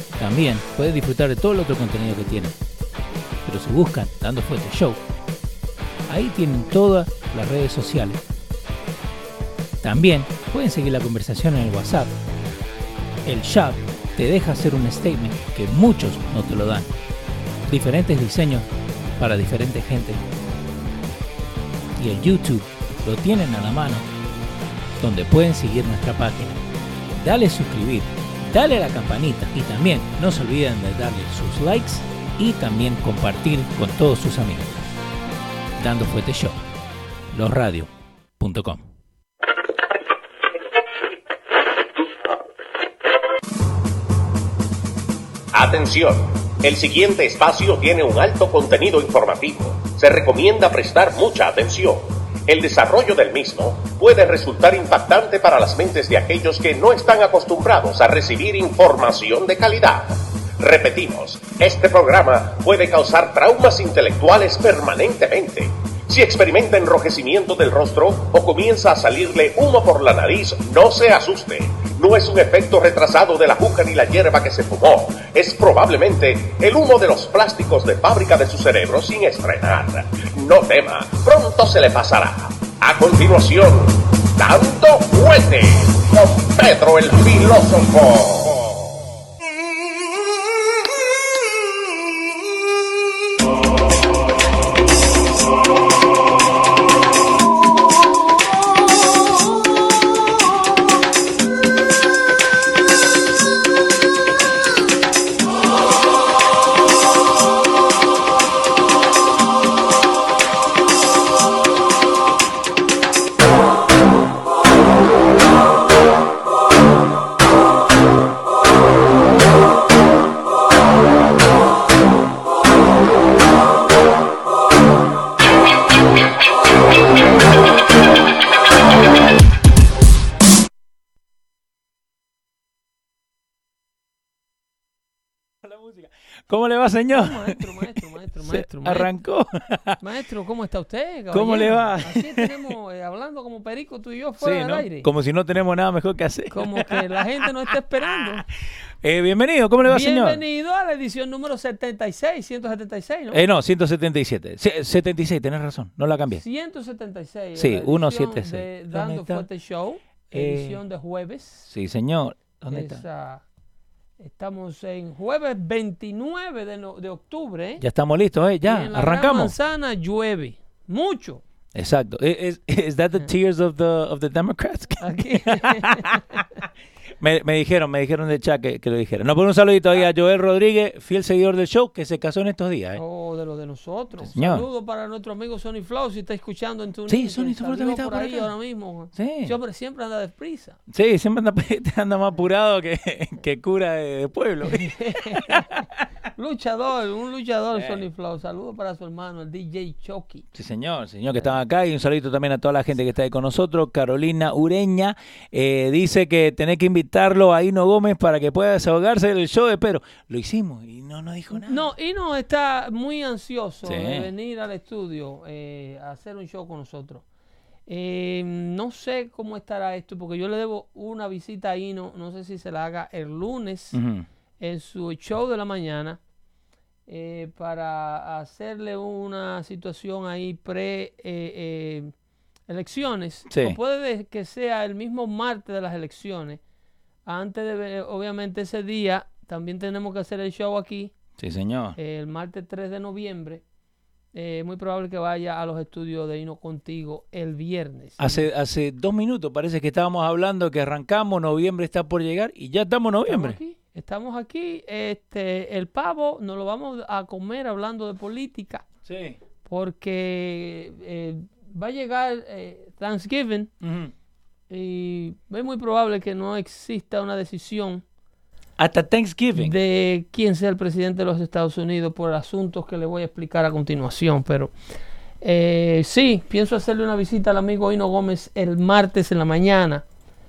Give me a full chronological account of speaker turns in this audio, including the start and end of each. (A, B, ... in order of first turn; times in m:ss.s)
0:00.2-0:02.5 A
0:03.4-0:05.0 A
0:06.1-0:08.2 A
0:09.8-0:12.2 A
0:13.2-0:16.9 A
0:17.7-0:18.7 A
0:19.2-0:20.2 A
0:22.0-0:24.0 A
0:25.0-0:26.6 A
0:27.2-0:34.8 A
0:35.8-0:36.6 A
0:37.3-0:38.8 A
0:45.5-1:28.8 B
2:15.6-2:17.6 A
2:17.1-2:19.1 C
2:18.4-2:20.0 A
2:20.0-2:25.1 C
2:21.3-2:22.5 A
2:24.4-2:27.2 A
2:26.5-2:28.4 C
2:29.0-2:30.4 A
2:29.8-2:33.4 C
2:33.3-2:36.4 A
2:36.3-2:41.6 C
2:37.6-2:39.4 A
2:40.3-2:40.8 A
2:41.7-2:43.0 A
2:42.7-2:43.4 C
2:44.2-2:47.8 C
2:47.8-2:49.5 A
2:48.6-2:51.4 C
2:51.7-2:56.4 A
2:55.0-2:56.4 C
2:57.2-3:03.0 A
3:03.0-3:10.7 C
3:04.3-3:04.6 A
3:07.1-3:08.5 A
3:09.1-3:09.5 A
3:10.9-3:15.7 A
3:14.6-3:15.8 C
3:16.4-3:20.4 C
3:17.7-3:18.0 A
3:20.5-3:31.9 A
3:31.5-3:37.2 C
3:33.8-3:34.3 A
3:37.9-3:44.0 C
3:43.9-3:44.2 A
3:44.6-3:46.2 C
3:47.1-3:52.1 C
3:52.7-3:56.6 C
3:53.5-3:53.8 A
3:57.2-4:01.1 C
4:01.4-4:02.0 A
4:02.0-4:03.6 C
4:04.3-4:08.5 C
4:08.2-4:13.6 A
4:13.3-4:18.8 C
4:19.0-4:19.4 A
4:19.6-4:23.7 C
4:23.8-4:24.1 A
4:24.7-4:28.0 C
4:28.8-4:29.8 A
4:29.6-4:34.7 C
4:35.4-4:40.0 C